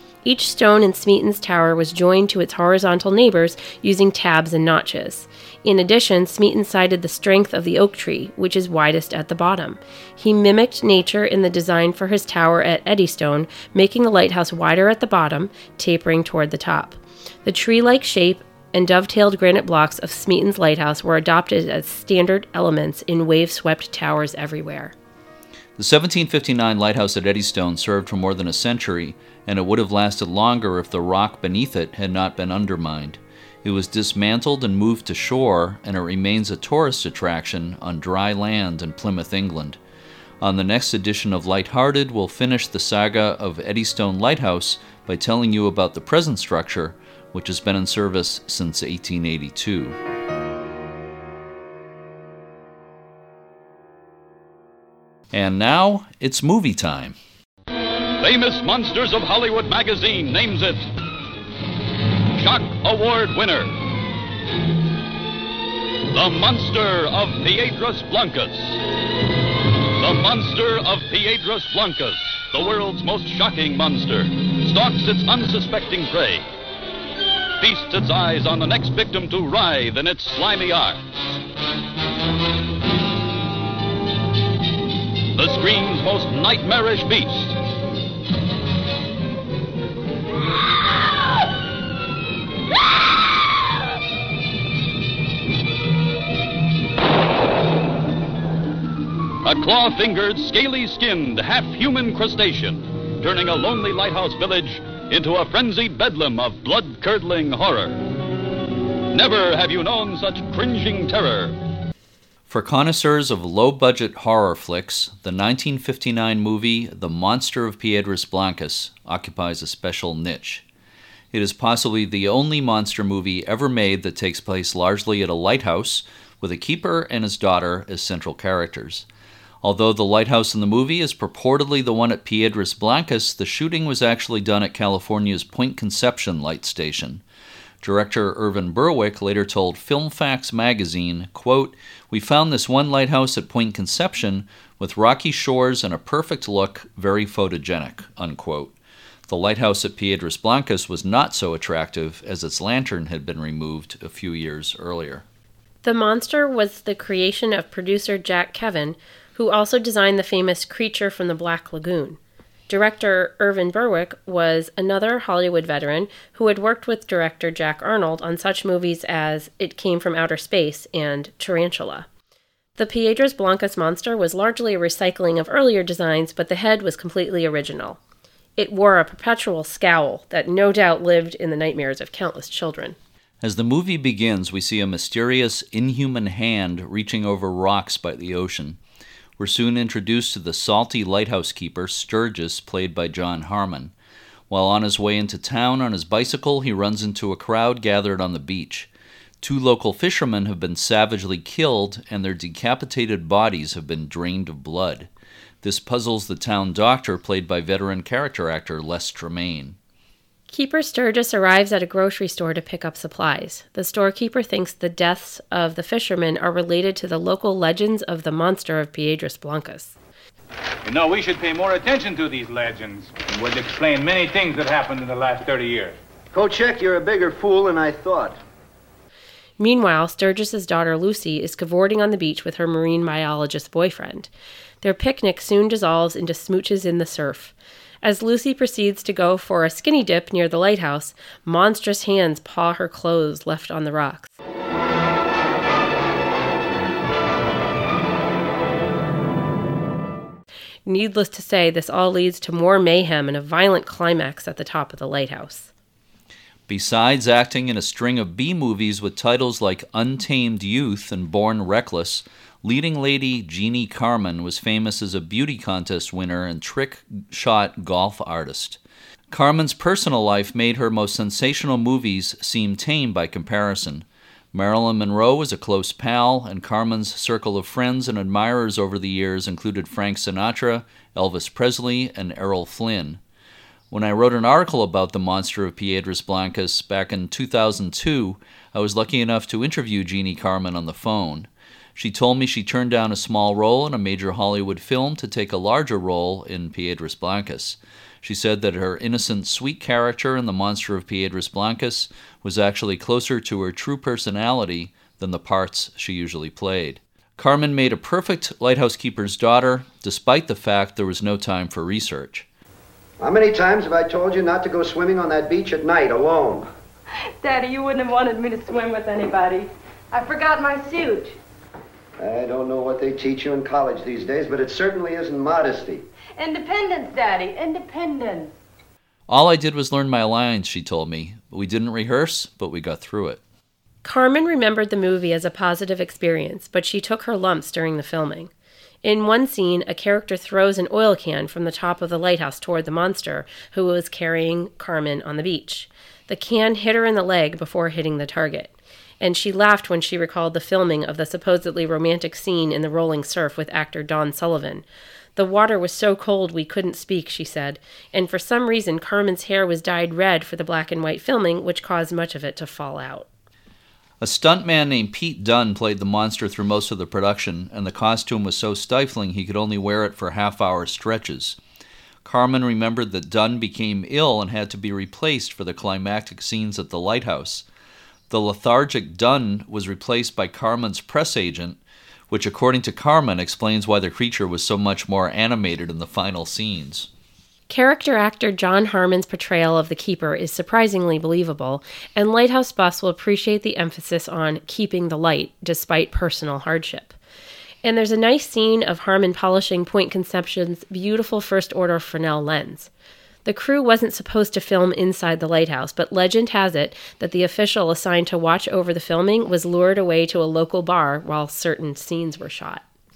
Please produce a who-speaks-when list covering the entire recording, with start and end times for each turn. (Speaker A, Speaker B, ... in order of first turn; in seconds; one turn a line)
Speaker A: 0.2-24.9
Speaker B: 25.8-39.8
Speaker B: 40.4-50.0
Speaker B: 55.3-57.2
Speaker C: 58.2-60.9
Speaker C: 62.3-63.8
Speaker C: 66.1-68.8
Speaker C: 69.9-76.5
Speaker C: 77.6-81.0
Speaker C: 85.3-87.6
Speaker C: 99.4-108.0
Speaker C: 109.1-111.6
Speaker B: 112.5-120.6
Speaker B: 121.3-129.1
Speaker B: 129.6-137.2
Speaker B: 137.8-148.7
Speaker B: 149.3-155.2
Speaker A: 155.8-172.1
Speaker A: 172.8-178.0
Speaker A: 178.6-182.9
Speaker B: 183.4-188.8
Speaker B: 189.4-193.9
Speaker B: 194.5-198.9
Speaker B: 199.4-205.1
Speaker B: 205.6-209.8
Speaker A: 210.5-219.9
Speaker D: 220.8-225.9
Speaker E: 226.3-228.4
Speaker A: 229.6-234.3
Speaker A: 234.8-244.3
Speaker A: 250.8-255.7
Speaker B: 256.7-268.8
Speaker B: 269.3-283.2
Speaker B: 283.9-312.4
Speaker E: 313.2-316.7
Speaker F: 317.4-321.4
Speaker E: 322.2-326.1
Speaker F: 326.4-328.5
Speaker B: 329.3-333.4
Speaker A: 334.0-338.5
Speaker A: 339.0-354.8
Speaker A: 355.4-363.3
Speaker B: 364.2-371.6
Speaker B: 372.2-377.6
Speaker B: 378.3-381.8
Speaker B: 382.3-387.1
Speaker A: 387.7-397.1
Speaker A: 397.8-402.9
Speaker A: 403.4-412.8